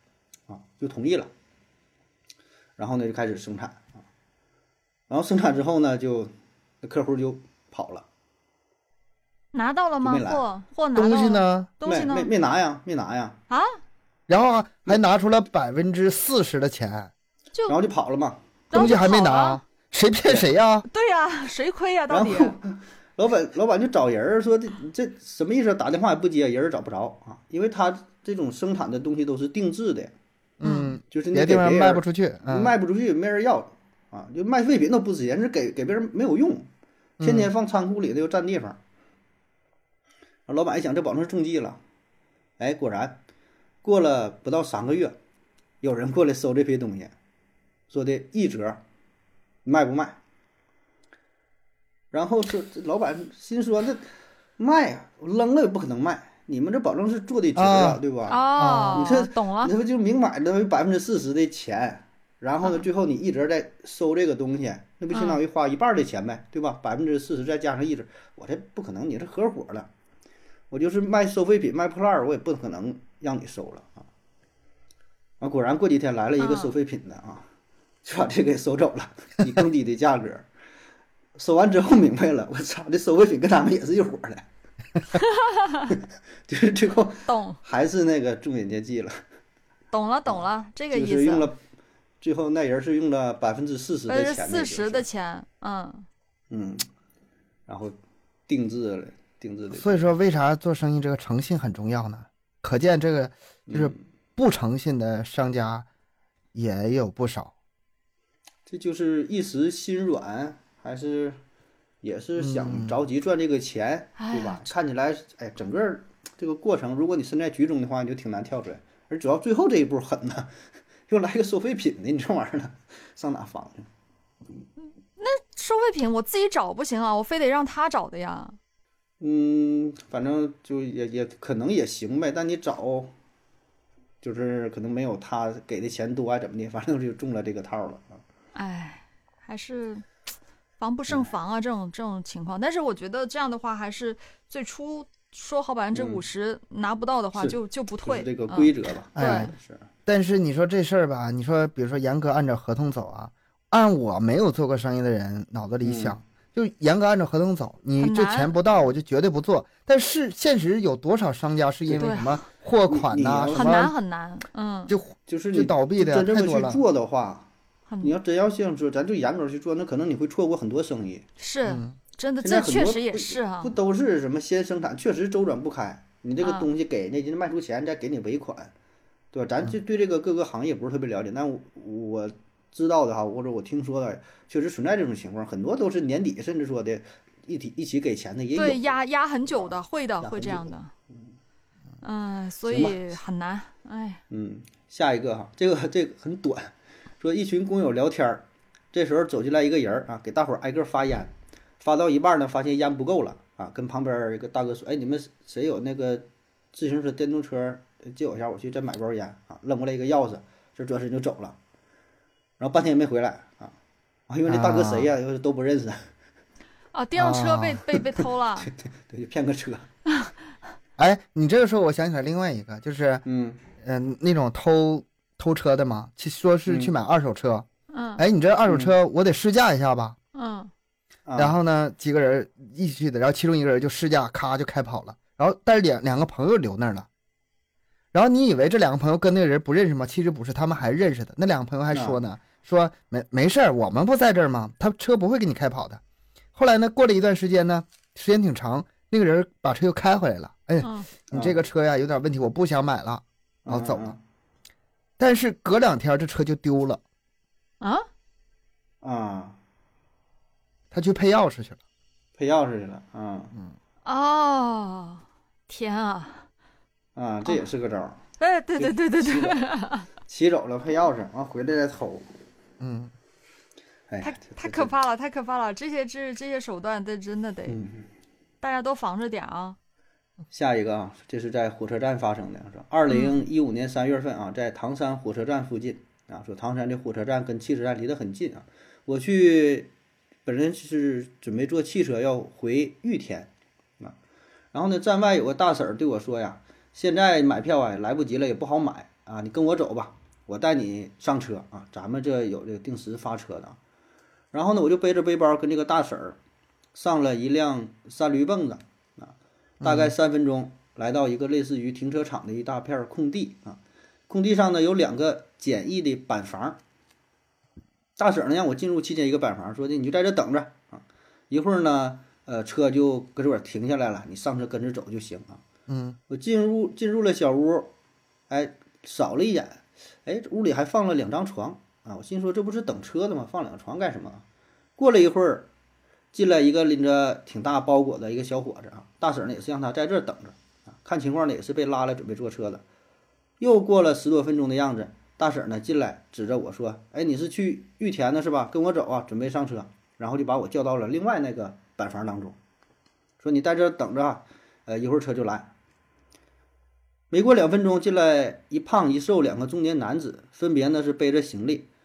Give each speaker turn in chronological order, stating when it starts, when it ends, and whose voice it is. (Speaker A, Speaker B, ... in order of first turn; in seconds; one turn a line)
Speaker A: 0.5-1.3
Speaker A: 2.8-4.0
Speaker A: 5.1-8.0
Speaker B: 9.5-12.3
Speaker A: 10.0-10.4
Speaker C: 10.9-11.7
Speaker A: 11.8-13.4
Speaker B: 13.5-13.8
Speaker C: 14.3-17.1
Speaker A: 17.7-18.4
Speaker B: 18.7-19.6
Speaker C: 18.7-20.9
Speaker A: 20.2-20.5
Speaker B: 20.9-22.6
Speaker A: 22.1-30.1
Speaker C: 30.6-32.7
Speaker B: 30.6-31.0
Speaker A: 31.1-36.7
Speaker C: 37.2-37.5
Speaker A: 37.2-38.8
Speaker A: 40.5-41.8
Speaker A: 42.6-43.2
Speaker A: 43.8-45.1
Speaker A: 45.8-47.1
Speaker A: 47.9-48.8
Speaker A: 49.6-50.2
Speaker A: 52.1-54.1
Speaker A: 54.6-69.9
Speaker C: 57.5-58.0
Speaker B: 58.3-59.7
Speaker C: 58.5-59.0
Speaker B: 65.1-65.4
Speaker A: 70.7-74.0
Speaker A: 75.4-77.5
Speaker B: 76.4-76.7
Speaker A: 78.0-80.5
Speaker A: 81.3-84.5
Speaker B: 85.2-85.9
Speaker A: 86.5-89.2
Speaker B: 87.3-87.6
Speaker B: 89.9-91.5
Speaker A: 90.3-91.6
Speaker A: 92.2-95.0
Speaker B: 94.1-96.0
Speaker A: 96.5-96.9
Speaker A: 97.7-98.0
Speaker A: 98.5-100.1
Speaker C: 99.8-105.8
Speaker A: 103.7-104.0
Speaker C: 106.5-107.5
Speaker A: 108.7-111.4
Speaker A: 112.0-120.5
Speaker C: 112.4-113.0
Speaker B: 114.2-114.7
Speaker A: 121.1-123.9
Speaker B: 125.2-128.6
Speaker A: 129.2-133.1
Speaker A: 134.2-138.2
Speaker B: 138.5-140.1
Speaker B: 140.8-149.5
Speaker A: 145.9-146.2
Speaker A: 147.3-149.9
Speaker C: 149.2-149.5
Speaker C: 150.1-163.9
Speaker A: 155.8-156.2
Speaker B: 158.0-158.5
Speaker A: 161.9-162.2
Speaker B: 162.0-162.4
Speaker A: 162.8-163.9
Speaker B: 163.5-164.9
Speaker C: 164.9-166.8
Speaker A: 165.3-167.5
Speaker B: 167.9-168.1
Speaker A: 168.0-171.2
Speaker B: 171.4-173.7
Speaker C: 171.6-171.9
Speaker A: 172.4-178.7
Speaker B: 176.4-176.7
Speaker A: 179.3-188.9
Speaker B: 188.5-190.9
Speaker A: 189.5-190.7
Speaker B: 192.0-194.2
Speaker A: 192.7-193.0
Speaker A: 194.3-211.6
Speaker A: 212.6-213.7
Speaker A: 214.3-216.0
Speaker C: 214.5-215.1
Speaker B: 216.9-218.7
Speaker C: 217.2-217.8
Speaker A: 218.6-219.9
Speaker C: 221.0-223.2
Speaker A: 223.2-223.6
Speaker C: 223.8-227.7
Speaker A: 226.7-226.9
Speaker B: 227.9-228.2
Speaker C: 228.2-230.2
Speaker A: 228.7-228.9
Speaker B: 230.3-230.7
Speaker A: 231.3-231.6
Speaker C: 231.4-237.1
Speaker C: 238.1-246.0
Speaker A: 241.9-242.2
Speaker C: 246.5-254.1
Speaker B: 250.8-251.1
Speaker A: 251.3-251.6
Speaker A: 253.6-254.2
Speaker C: 255.2-257.0
Speaker B: 257.8-258.1
Speaker A: 259.0-259.6
Speaker C: 260.9-261.8
Speaker A: 262.4-263.5
Speaker B: 264.0-266.4
Speaker A: 267.1-268.2
Speaker B: 268.4-270.1
Speaker A: 268.8-269.6
Speaker A: 270.1-272.2
Speaker C: 272.8-273.1
Speaker A: 274.1-274.9
Speaker B: 274.2-277.8
Speaker A: 277.7-278.0
Speaker B: 278.6-279.8
Speaker A: 280.5-289.9
Speaker B: 283.1-283.4
Speaker A: 290.4-294.1
Speaker A: 294.7-303.8
Speaker A: 304.5-306.4
Speaker A: 306.9-316.8
Speaker C: 309.8-310.1
Speaker A: 318.2-325.6
Speaker C: 325.9-326.2
Speaker A: 326.3-327.9
Speaker A: 328.5-334.4
Speaker A: 335.0-335.7
Speaker A: 336.3-342.8
Speaker A: 343.6-352.6
Speaker A: 353.4-355.7
Speaker A: 357.3-361.9